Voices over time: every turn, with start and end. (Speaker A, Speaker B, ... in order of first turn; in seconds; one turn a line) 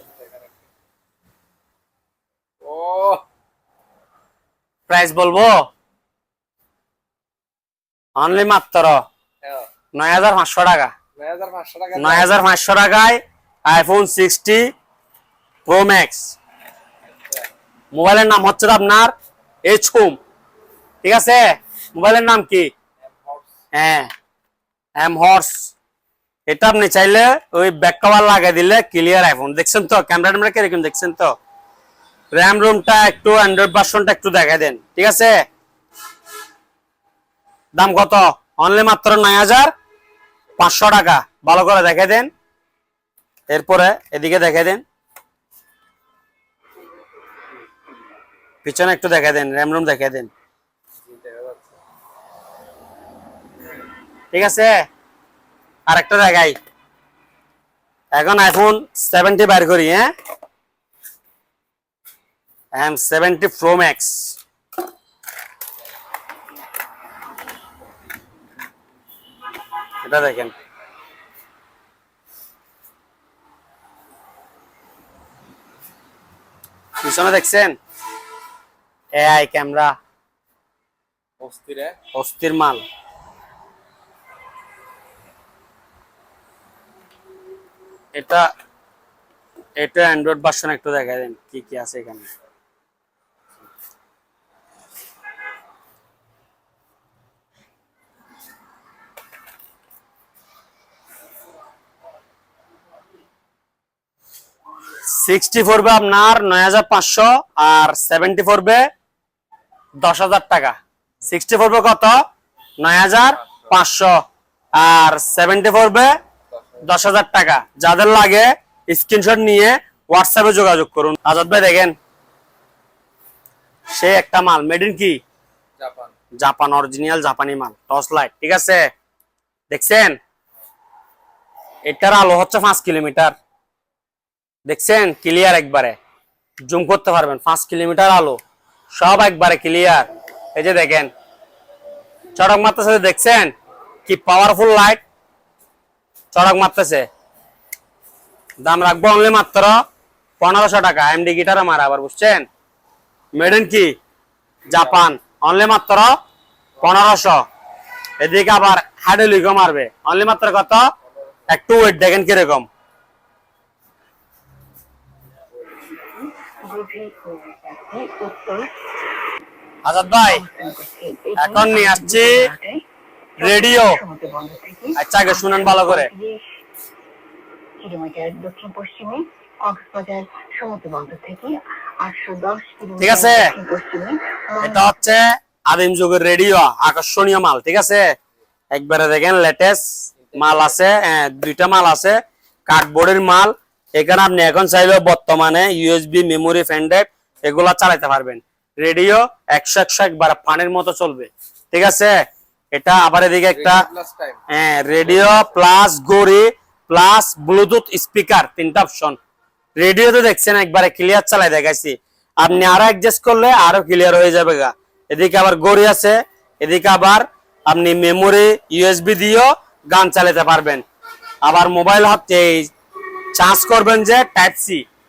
Speaker A: 0.2-0.5
Speaker A: 2.6-3.2
Speaker B: 4.9-5.7
Speaker B: 8.2-9.0
Speaker B: 9.9-10.9
Speaker A: 11.2-12.4
Speaker B: 11.9-14.7
Speaker B: 15.7-16.4
Speaker B: 17.9-19.1
Speaker B: 19.6-20.2
Speaker B: 21.0-22.7
Speaker A: 23.1-23.4
Speaker B: 23.7-24.1
Speaker B: 25.0-25.7
Speaker B: 26.5-31.4
Speaker B: 32.3-35.4
Speaker B: 37.8-39.7
Speaker B: 40.6-42.3
Speaker B: 43.5-44.8
Speaker B: 48.6-50.3
Speaker A: 51.1-51.6
Speaker B: 54.3-54.9
Speaker B: 55.9-56.6
Speaker B: 58.1-60.1
Speaker B: 62.8-64.4
Speaker B: 70.0-70.5
Speaker B: 77.0-77.8
Speaker B: 79.1-79.9
Speaker A: 81.4-82.0
Speaker B: 82.1-82.8
Speaker B: 88.1-88.5
Speaker B: 89.8-92.3
Speaker B: 105.1-108.9
Speaker B: 110.0-112.2
Speaker B: 112.8-114.2
Speaker B: 114.8-116.1
Speaker A: 116.5-116.8
Speaker B: 116.8-122.0
Speaker B: 123.9-125.2
Speaker A: 125.8-126.1
Speaker B: 126.4-128.9
Speaker B: 129.7-130.2
Speaker B: 131.9-133.4
Speaker B: 134.7-136.0
Speaker B: 136.7-138.4
Speaker B: 138.9-141.1
Speaker B: 142.3-143.5
Speaker B: 144.1-145.0
Speaker B: 146.3-147.1
Speaker B: 148.6-149.8
Speaker B: 150.4-152.5
Speaker B: 153.4-153.9
Speaker B: 154.7-156.1
Speaker B: 156.8-157.4
Speaker B: 158.2-160.9
Speaker B: 161.5-162.7
Speaker C: 166.6-168.7
Speaker B: 169.8-170.4
Speaker C: 170.2-172.8
Speaker B: 171.4-172.5
Speaker C: 173.4-176.4
Speaker B: 173.4-174.0
Speaker B: 175.0-176.1
Speaker C: 177.8-184.8
Speaker B: 183.0-183.5
Speaker B: 184.6-188.1
Speaker B: 188.7-202.2
Speaker B: 202.7-203.8
Speaker A: 203.5-204.4
Speaker B: 204.5-209.2
Speaker A: 205.0-205.5
Speaker B: 209.8-220.8
Speaker B: 221.4-222.7
Speaker B: 223.3-224.8